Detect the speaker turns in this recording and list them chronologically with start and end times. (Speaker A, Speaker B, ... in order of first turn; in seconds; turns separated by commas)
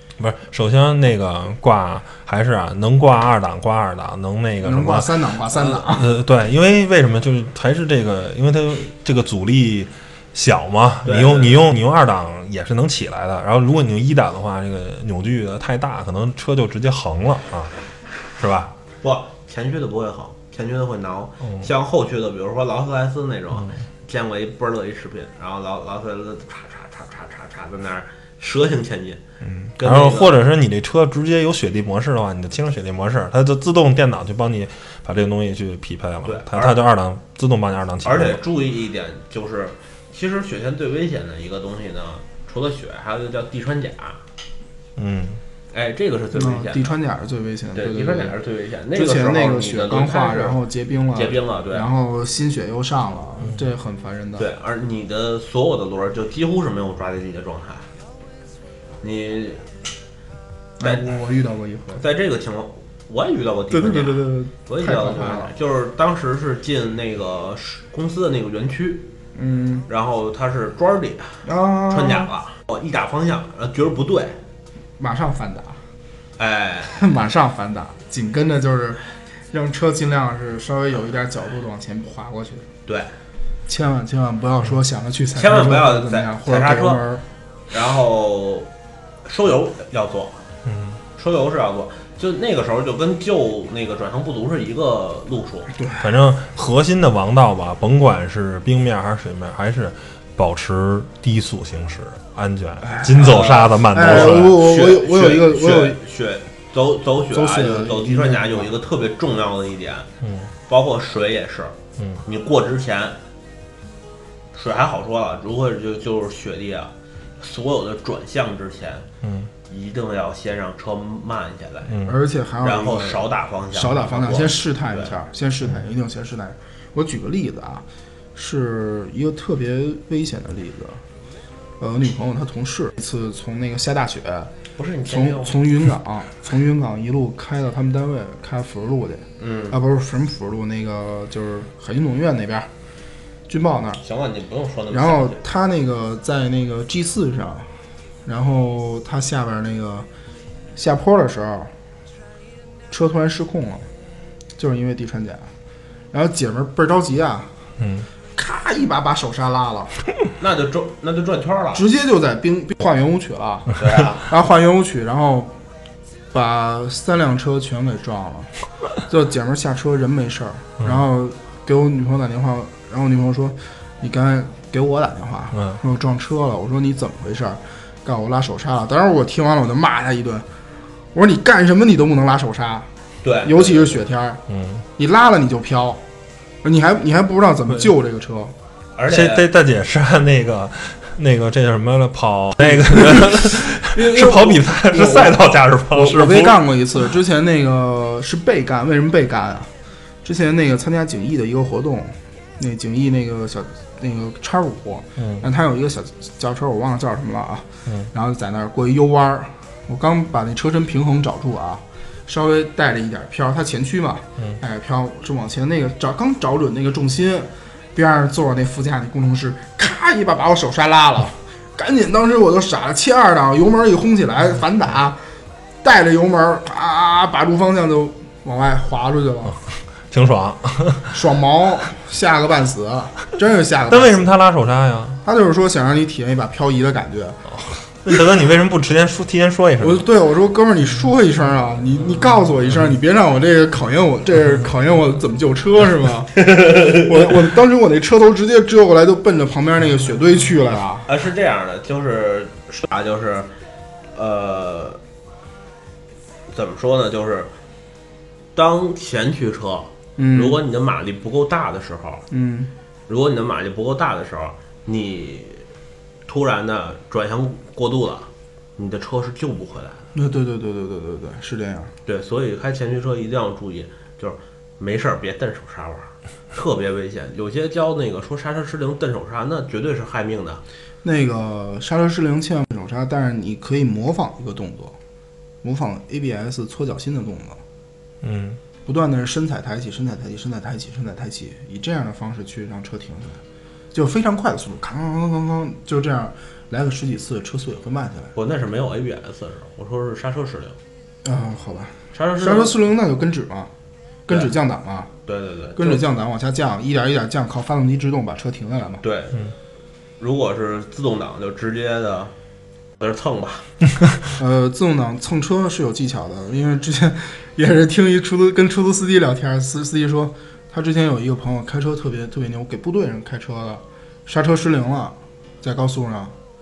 Speaker A: 0.2-5.1, Speaker B: 4.6-6.1, Speaker A: 5.7-17.7, Speaker C: 11.0-11.6, Speaker A: 18.4-18.7, Speaker C: 19.0-29.2, Speaker A: 29.4-38.4, Speaker C: 29.8-30.4, Speaker C: 36.2-36.8, Speaker C: 38.0-44.2, Speaker A: 45.0-45.4, Speaker C: 45.7-47.0, Speaker B: 46.3-48.4, Speaker C: 47.7-50.6, Speaker B: 48.9-54.5, Speaker C: 51.1-51.9, Speaker C: 54.4-57.9, Speaker C: 59.0-59.6, Speaker B: 60.8-62.0, Speaker C: 62.0-69.1, Speaker B: 63.7-65.5, Speaker B: 69.4-69.9, Speaker C: 69.9-74.4, Speaker B: 71.4-72.3, Speaker B: 75.0-75.8, Speaker C: 76.4-77.0, Speaker B: 76.9-79.0, Speaker B: 79.5-82.7, Speaker C: 82.9-83.1, Speaker B: 83.7-87.2, Speaker C: 85.3-87.0, Speaker C: 87.7-88.7, Speaker C: 89.2-90.4, Speaker A: 90.7-91.0, Speaker C: 91.2-95.7, Speaker B: 95.8-96.1, Speaker A: 96.0-104.6, Speaker B: 102.8-106.0, Speaker C: 103.1-110.1, Speaker B: 107.3-108.7, Speaker A: 110.2-110.5, Speaker C: 110.7-113.2, Speaker C: 114.5-119.1, Speaker A: 119.2-119.5, Speaker C: 119.7-122.0, Speaker A: 121.9-122.2, Speaker B: 122.0-131.0, Speaker C: 122.6-125.1, Speaker B: 131.8-134.5, Speaker C: 134.8-135.7, Speaker B: 135.1-142.7, Speaker C: 139.4-139.8, Speaker B: 143.5-144.0, Speaker C: 144.0-145.4, Speaker B: 144.9-147.7, Speaker B: 148.2-150.1, Speaker B: 150.8-151.7, Speaker B: 152.9-153.9, Speaker B: 154.6-155.5, Speaker B: 156.1-157.5, Speaker A: 157.8-158.1, Speaker B: 158.3-159.9, Speaker C: 160.4-161.8, Speaker B: 161.8-165.5, Speaker C: 163.8-164.3, Speaker B: 166.3-180.5, Speaker B: 181.1-182.9, Speaker C: 183.2-184.0, Speaker B: 183.4-184.4, Speaker A: 184.5-184.9, Speaker B: 185.0-186.0, Speaker B: 186.6-188.5, Speaker C: 188.9-189.5, Speaker A: 189.1-196.6, Speaker B: 192.7-192.9, Speaker C: 194.1-195.3, Speaker B: 194.9-195.3, Speaker B: 195.9-199.7, Speaker B: 200.2-225.2, Speaker A: 205.2-205.4, Speaker A: 207.9-208.1, Speaker B: 225.8-229.6, Speaker A: 230.1-231.1, Speaker B: 231.1-234.3, Speaker A: 233.9-235.2, Speaker B: 235.2-237.4, Speaker A: 237.5-240.0, Speaker B: 239.8-251.1, Speaker C: 251.1-253.5, Speaker C: 254.1-255.0, Speaker C: 256.5-257.5, Speaker C: 258.5-262.3, Speaker B: 260.2-260.6, Speaker B: 262.3-262.7, Speaker C: 263.1-265.7, Speaker C: 266.3-270.1, Speaker B: 270.1-271.9, Speaker C: 272.1-280.6, Speaker B: 281.0-285.0, Speaker B: 285.6-287.6, Speaker A: 288.2-288.6, Speaker B: 288.9-293.4, Speaker B: 293.9-298.3, Speaker C: 298.4-300.8, Speaker B: 301.2-303.7, Speaker C: 302.1-302.8, Speaker B: 304.3-305.1, Speaker C: 305.3-306.0, Speaker B: 305.8-309.0, Speaker C: 309.0-309.4, Speaker C: 310.2-312.3, Speaker C: 313.0-313.7, Speaker B: 314.4-326.4